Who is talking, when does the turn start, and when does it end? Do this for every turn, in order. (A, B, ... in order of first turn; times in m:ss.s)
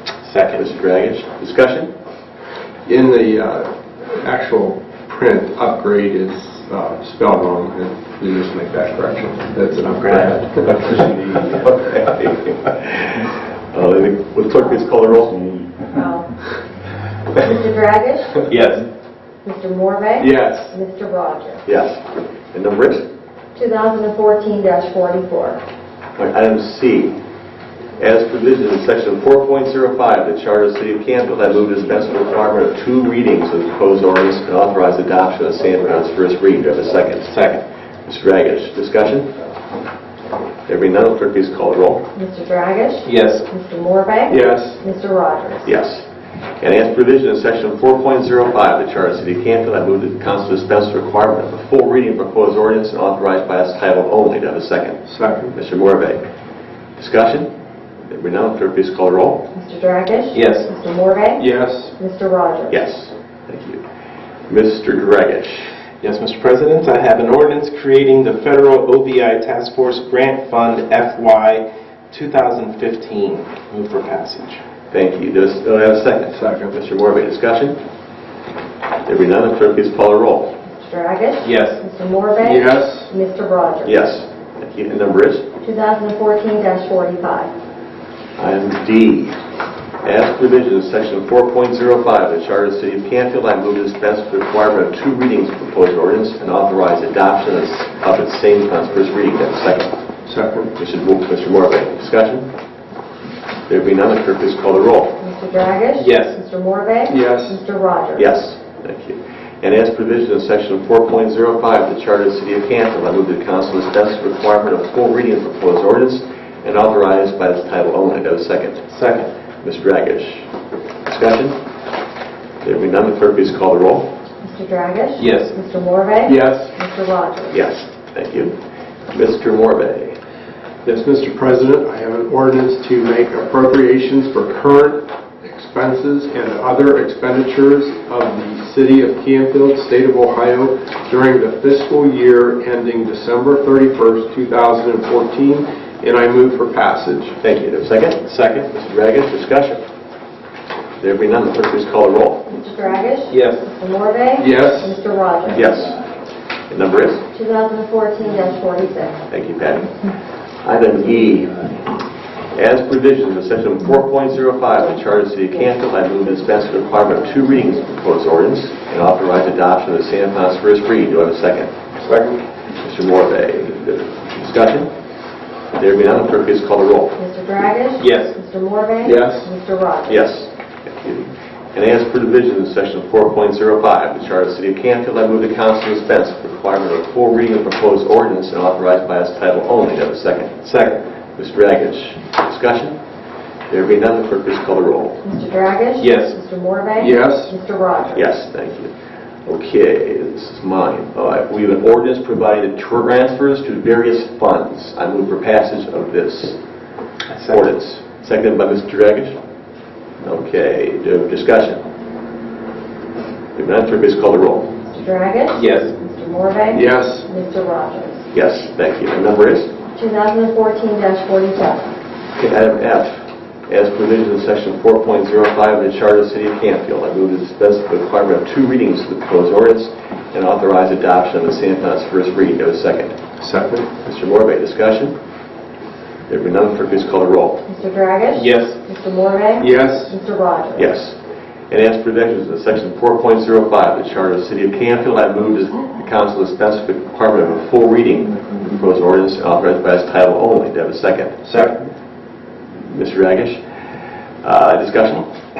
0:00.2-0:00.6 A
0:00.5-0:01.9 B
0:02.8-0:11.5 C
0:11.5-0:13.1 B
0:13.7-0:15.6 B
0:15.9-0:16.4 D
0:17.3-0:18.4 D
0:18.5-0:18.8 A
0:19.4-0:21.6 D
0:20.2-0:20.7 C
0:21.6-0:22.0 B
0:22.5-0:23.0 B
0:23.5-0:25.6 D
0:26.2-0:27.2 B
0:28.0-0:37.3 B
0:37.3-0:37.6 A
0:38.0-0:39.3 B
0:40.7-0:42.1 B
0:42.1-0:45.7 D
0:43.0-0:43.4 A
0:44.3-0:44.8 C
0:45.6-0:46.0 B
0:46.6-0:56.3 B
0:55.1-0:55.5 C
0:57.0-0:57.5 B
0:58.1-0:59.4 B
0:59.5-1:02.8 D
1:00.3-1:00.7 A
1:01.4-1:01.9 C
1:02.7-1:03.8 B
1:04.5-1:05.7 B
1:06.0-1:14.6 A
1:14.9-1:17.8 B
1:16.3-1:16.7 C
1:19.0-1:20.5 B
1:20.7-1:24.0 D
1:21.4-1:21.8 A
1:22.4-1:23.1 C
1:23.8-1:25.4 B
1:25.6-1:27.5 D
1:28.4-1:29.4 B
1:30.0-1:39.9 B
1:40.3-1:40.7 C
1:40.8-1:42.5 B
1:43.7-1:45.2 B
1:45.2-1:48.3 D
1:46.0-1:46.4 A
1:47.1-1:47.6 C
1:48.2-1:58.9 B
1:58.9-1:59.3 A
1:59.6-2:00.4 B
2:01.0-2:01.6 B
2:02.6-2:04.1 B
2:04.4-2:07.6 D
2:05.2-2:05.5 A
2:06.2-2:06.7 C
2:07.5-2:08.5 B
2:09.1-2:10.2 B
2:10.8-2:27.4 C
2:27.4-2:29.8 B
2:31.0-2:32.5 B
2:32.5-2:35.9 D
2:33.3-2:33.6 A
2:34.4-2:35.0 C
2:35.5-2:36.0 B
2:36.7-2:37.2 B
2:37.3-2:39.2 D
2:39.3-2:40.0 B
2:40.6-2:41.6 B
2:42.5-2:51.7 B
2:51.9-2:52.4 C
2:52.8-2:54.9 B
2:55.7-2:57.2 B
2:57.2-3:00.2 D
2:58.0-2:58.3 A
2:59.0-2:59.5 C
3:00.1-3:10.6 B
3:10.6-3:11.0 A
3:11.4-3:13.0 B
3:13.7-3:15.2 B
3:15.2-3:18.2 D
3:16.0-3:16.3 A
3:17.0-3:17.5 C
3:18.1-3:18.9 B
3:19.4-3:26.6 B
3:27.3-3:27.6 A
3:27.4-3:29.4 B
3:30.2-3:31.8 B
3:33.5-3:34.7 B
3:34.8-3:38.2 D
3:35.5-3:35.9 A
3:36.7-3:37.2 C
3:38.3-3:39.7 B
3:39.9-3:41.9 D
3:42.4-3:53.2 B
3:53.4-3:53.9 C
3:54.0-3:55.1 B
3:56.3-3:57.6 B
3:57.6-4:00.9 D
3:58.4-3:58.7 A
3:59.6-4:00.1 C
4:00.8-4:01.2 B
4:01.7-4:11.7 B
4:11.5-4:11.7 C
4:12.9-4:13.6 B
4:14.4-4:15.2 B